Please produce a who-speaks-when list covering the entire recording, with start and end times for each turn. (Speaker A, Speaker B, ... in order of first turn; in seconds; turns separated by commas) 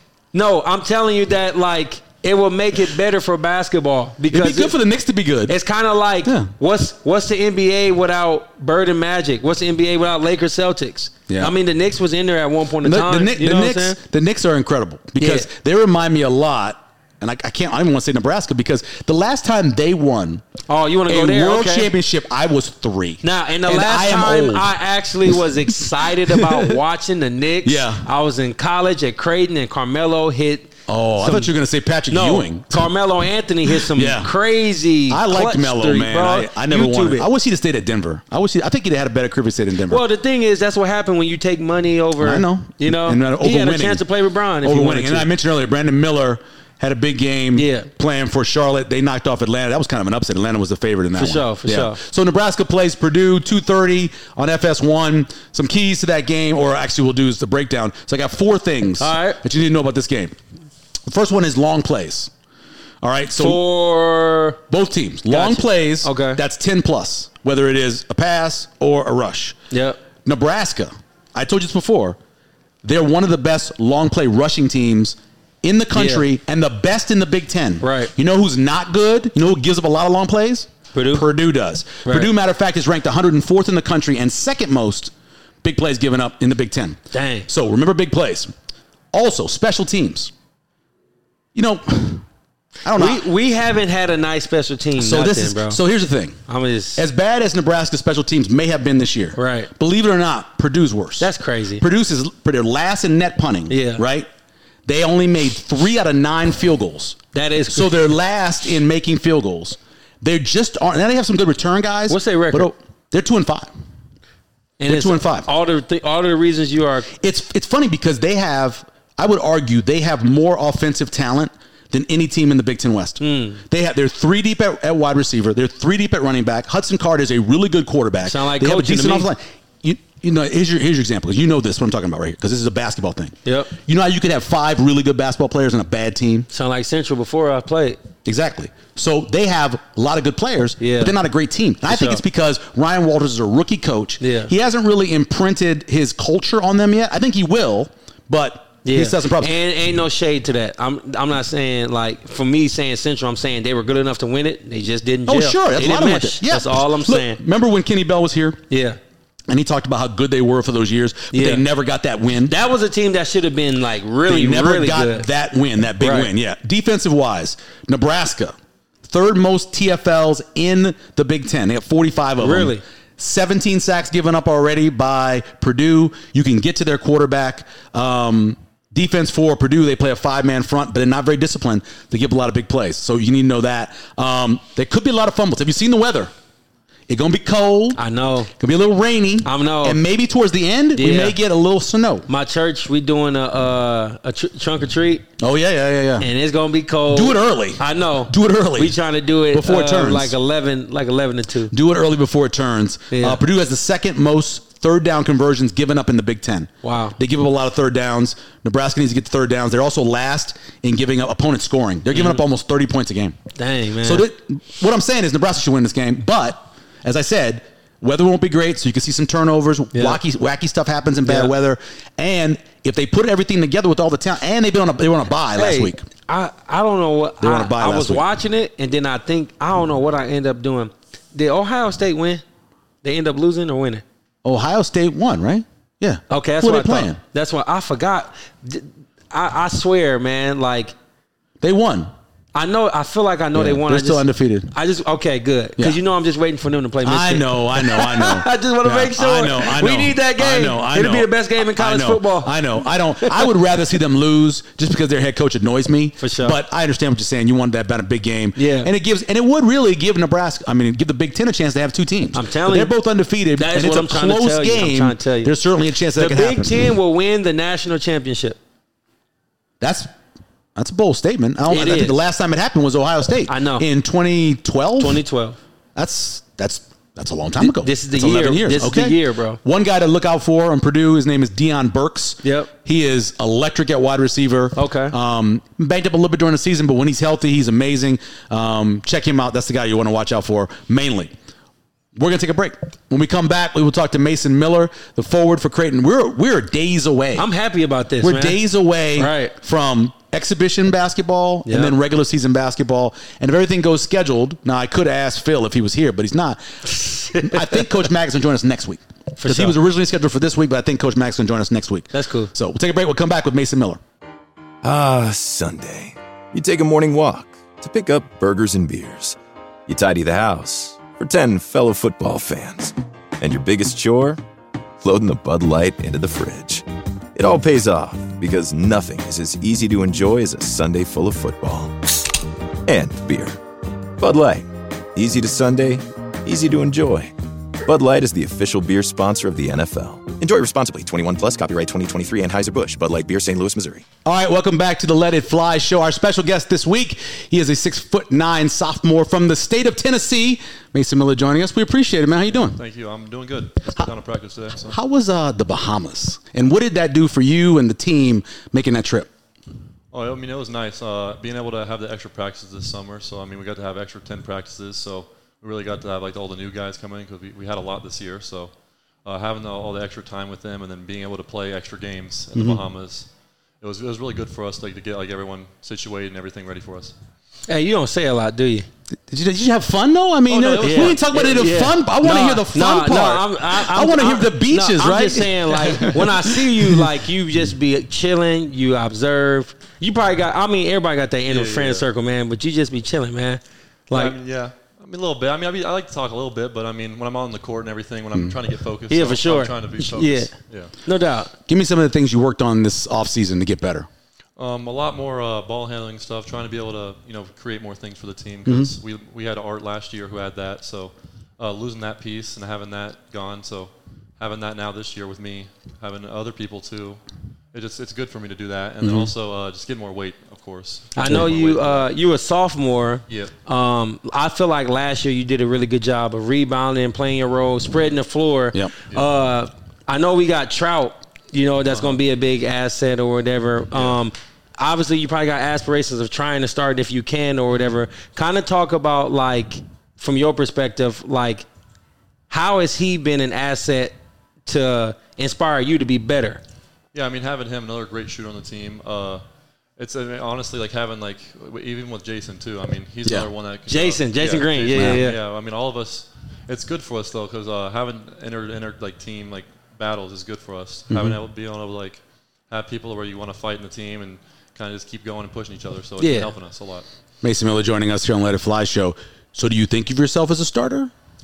Speaker A: 0.3-4.8, Speaker B: 4.3-5.6, Speaker A: 5.5-14.0, Speaker B: 6.2-6.5, Speaker B: 11.3-11.6, Speaker B: 12.8-20.4, Speaker A: 15.2-15.5, Speaker A: 20.7-21.9, Speaker B: 21.1-24.7, Speaker A: 23.2-31.5, Speaker B: 26.3-26.8, Speaker B: 27.6-28.0, Speaker B: 30.9-32.9, Speaker A: 32.1-37.3, Speaker B: 33.7-34.3, Speaker B: 35.1-40.0, Speaker A: 39.9-45.3, Speaker B: 42.2-44.0, Speaker B: 44.6-60.3, Speaker A: 47.5-47.9, Speaker A: 51.1-52.0, Speaker A: 59.0-59.4, Speaker B: 61.1-62.3, Speaker B: 63.0-63.6, Speaker A: 63.4-64.6, Speaker B: 64.7-69.5, Speaker A: 65.3-66.4, Speaker A: 69.7-70.0, Speaker B: 70.2-72.2, Speaker B: 72.8-88.5, Speaker A: 75.9-76.2, Speaker A: 77.8-78.1, Speaker A: 80.9-81.2, Speaker A: 82.0-82.3, Speaker A: 87.1-87.5, Speaker B: 89.1-90.3, Speaker B: 91.5-92.2, Speaker B: 92.8-93.2, Speaker A: 92.9-95.8, Speaker B: 95.0-96.4, Speaker A: 96.5-97.0, Speaker B: 97.0-104.3, Speaker A: 99.3-99.7, Speaker A: 101.2-101.8, Speaker A: 103.7-104.0, Speaker B: 104.8-107.2, Speaker A: 107.3-107.9, Speaker B: 107.7-113.7, Speaker A: 112.1-112.7, Speaker A: 114.8-117.1, Speaker B: 114.8-115.5, Speaker B: 117.2-136.5, Speaker A: 123.2-123.6, Speaker A: 128.2-129.3, Speaker A: 133.4-133.7, Speaker A: 136.5-138.0, Speaker B: 138.2-149.5, Speaker A: 140.8-141.1, Speaker A: 141.9-142.2, Speaker A: 144.2-144.5, Speaker A: 148.8-157.4, Speaker B: 155.3-158.6, Speaker A: 158.7-159.0, Speaker B: 159.5-162.5, Speaker A: 161.3-161.6, Speaker A: 162.3-165.3, Speaker B: 164.2-168.5, Speaker A: 166.0-166.3, Speaker B: 169.1-186.3, Speaker A: 172.4-172.8, Speaker B: 187.1-188.0, Speaker A: 187.9-188.5, Speaker B: 188.6-192.3, Speaker A: 189.4-190.0, Speaker A: 190.9-191.4, Speaker A: 192.3-195.2, Speaker B: 195.4-196.3, Speaker A: 196.2-201.7, Speaker B: 197.1-199.0, Speaker B: 199.5-200.3, Speaker B: 201.7-213.4, Speaker A: 203.1-203.4, Speaker A: 206.8-207.2, Speaker A: 212.1-212.4, Speaker A: 213.6-214.3, Speaker B: 214.0-226.0, Speaker A: 219.9-220.2, Speaker A: 221.2-221.5, Speaker A: 225.5-232.4, Speaker B: 227.4-228.2, Speaker A: 233.0-234.0, Speaker B: 234.4-237.2, Speaker A: 236.3-240.9, Speaker B: 241.6-242.1, Speaker A: 242.5-252.7, Speaker B: 243.5-244.7, Speaker B: 247.0-266.9, Speaker A: 253.2-253.5, Speaker A: 256.2-256.6, Speaker A: 258.6-258.9, Speaker A: 262.3-262.9, Speaker A: 263.6-265.5, Speaker A: 266.1-268.6, Speaker B: 269.8-270.1, Speaker B: 270.7-275.2, Speaker A: 271.7-272.2, Speaker A: 273.5-273.9, Speaker A: 275.0-275.6, Speaker B: 275.9-291.3, Speaker A: 277.6-279.6, Speaker A: 282.4-282.7, Speaker A: 284.8-285.1, Speaker B: 292.1-297.5, Speaker A: 297.4-298.6, Speaker B: 298.2-314.0, Speaker A: 299.1-299.5, Speaker A: 301.6-301.9, Speaker A: 306.9-307.8, Speaker A: 309.4-309.8, Speaker A: 312.1-312.5, Speaker C: 314.8-319.4, Speaker C: 319.9-324.4, Speaker C: 325.0-332.2, Speaker C: 332.9-333.6, Speaker C: 334.2-337.3, Speaker C: 337.9-344.0, Speaker B: 344.2-352.8, Speaker D: 352.6-355.0, Speaker B: 354.9-359.3, Speaker D: 360.1-368.7, Speaker D: 369.2-373.3, Speaker B: 372.5-372.8, Speaker D: 373.8-377.1, Speaker A: 377.7-378.9, Speaker B: 379.3-387.1, Speaker D: 380.5-381.2, Speaker A: 380.8-394.4, Speaker D: 391.5-392.1, Speaker D: 394.1-400.9, Speaker A: 399.1-400.5, Speaker A: 401.1-401.5, Speaker B: 401.7-404.1, Speaker D: 404.6-417.2, Speaker B: 408.6-408.9, Speaker D: 417.7-422.1, Speaker B: 419.0-419.3, Speaker A: 421.1-441.6, Speaker A: 442.5-446.6, Speaker D: 447.1-449.4, Speaker D: 450.0-467.1, Speaker A: 453.9-455.4, Speaker B: 454.9-455.2, Speaker B: 461.1-461.4, Speaker A: 466.2-466.5, Speaker B: 467.4-471.1